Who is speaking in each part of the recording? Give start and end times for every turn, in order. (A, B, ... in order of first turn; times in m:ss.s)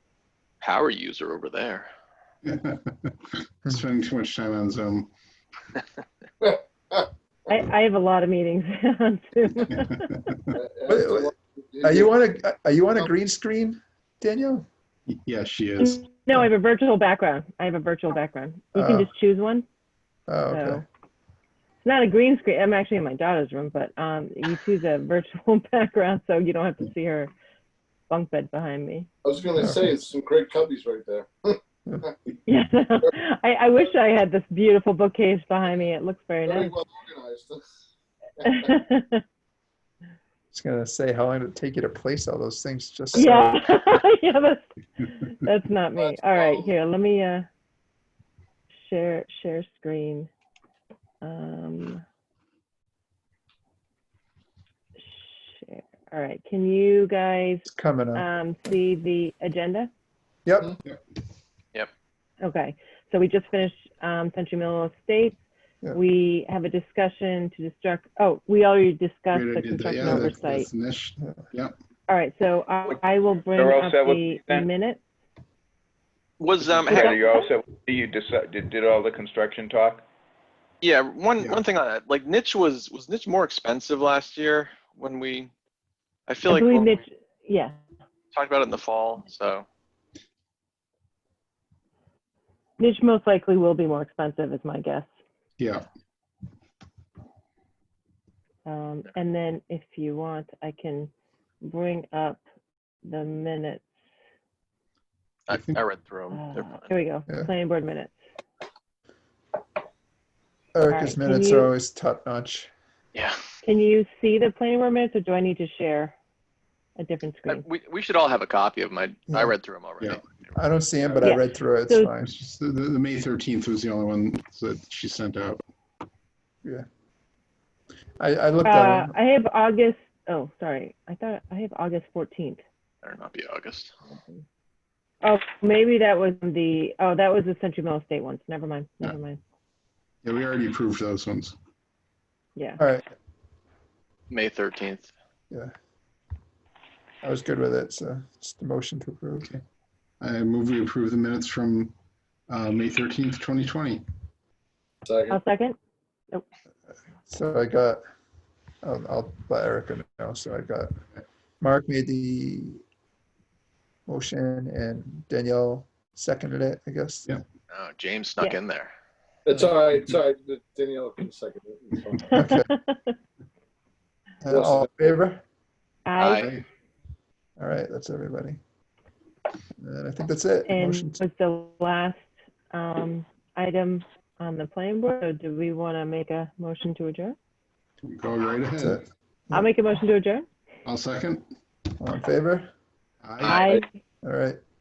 0:00.6-0:01.9 A
0:02.4-0:05.1 B
0:06.4-0:07.1 C
0:07.5-0:10.2 D
0:09.6-0:10.6 B
0:10.5-0:12.1 C
0:10.9-0:11.3 E
0:11.8-0:14.7 E
0:15.1-0:16.1 B
0:15.8-0:19.6 D
0:18.8-0:19.1 E
0:20.3-0:20.8 E
0:20.5-0:20.8 D
0:21.8-0:27.3 D
0:28.1-0:29.1 D
0:29.2-0:32.1 C
0:32.5-0:36.7 D
0:36.4-0:37.6 C
0:38.4-0:38.7 C
0:38.4-0:39.2 D
0:40.5-0:43.6 E
0:43.1-0:47.5 D
0:46.0-0:46.7 C
0:48.8-0:50.3 D
0:51.2-0:52.0 D
0:55.0-0:59.9 D
0:57.7-0:58.3 E
1:00.5-1:00.8 E
1:02.4-1:05.4 D
1:05.9-1:10.7 D
1:09.3-1:11.8 B
1:12.1-1:15.0 D
1:13.5-1:14.7 F
1:16.4-1:17.2 A
1:16.8-1:20.0 F
1:16.9-1:17.5 D
1:20.8-1:25.5 A
1:26.3-1:27.0 A
1:26.5-1:27.8 D
1:28.3-1:29.7 A
1:32.8-1:35.1 D
1:35.6-1:35.9 B
1:38.6-1:41.1 D
1:41.6-1:42.4 D
1:43.0-1:43.8 D
1:45.5-1:46.9 A
1:45.5-1:45.8 B
1:46.3-1:48.2 D
1:50.7-1:52.7 E
1:50.9-1:51.7 D
1:53.6-1:56.2 D
1:57.0-1:57.7 D
1:57.5-2:00.5 A
2:00.5-2:02.3 E
2:01.2-2:02.1 D
2:02.2-2:05.6 B
2:08.2-2:09.2 E
2:08.6-2:12.6 D
2:13.0-2:13.9 A
2:14.1-2:14.4 D
2:15.2-2:19.4 D
2:20.2-2:21.6 B
2:22.6-2:22.8 D
2:22.8-2:23.1 E
2:24.3-2:25.1 A
2:27.2-2:29.5 E
2:30.2-2:31.9 B
2:32.5-2:34.0 B
2:35.1-2:35.4 C
2:35.3-2:35.8 D
2:37.3-2:38.0 E
2:38.8-2:41.0 E
2:41.6-2:42.8 E
2:44.1-2:47.4 E
2:47.7-2:48.9 A
2:49.5-2:52.4 C
2:52.3-2:52.7 E
2:52.4-2:53.2 D
2:54.4-2:55.4 E
2:54.5-2:54.9 C
2:56.1-2:56.5 D
2:56.2-2:56.5 A
2:56.3-2:56.6 B
2:57.6-2:58.6 E
2:59.8-3:01.2 E
3:00.7-3:07.4 D
3:08.0-3:09.0 B
3:08.8-3:09.7 E
3:09.5-3:10.5 D
3:10.8-3:11.4 B
3:12.0-3:12.7 E
3:13.2-3:13.7 B
3:13.4-3:13.8 A
3:13.5-3:13.9 D
3:14.2-3:14.6 E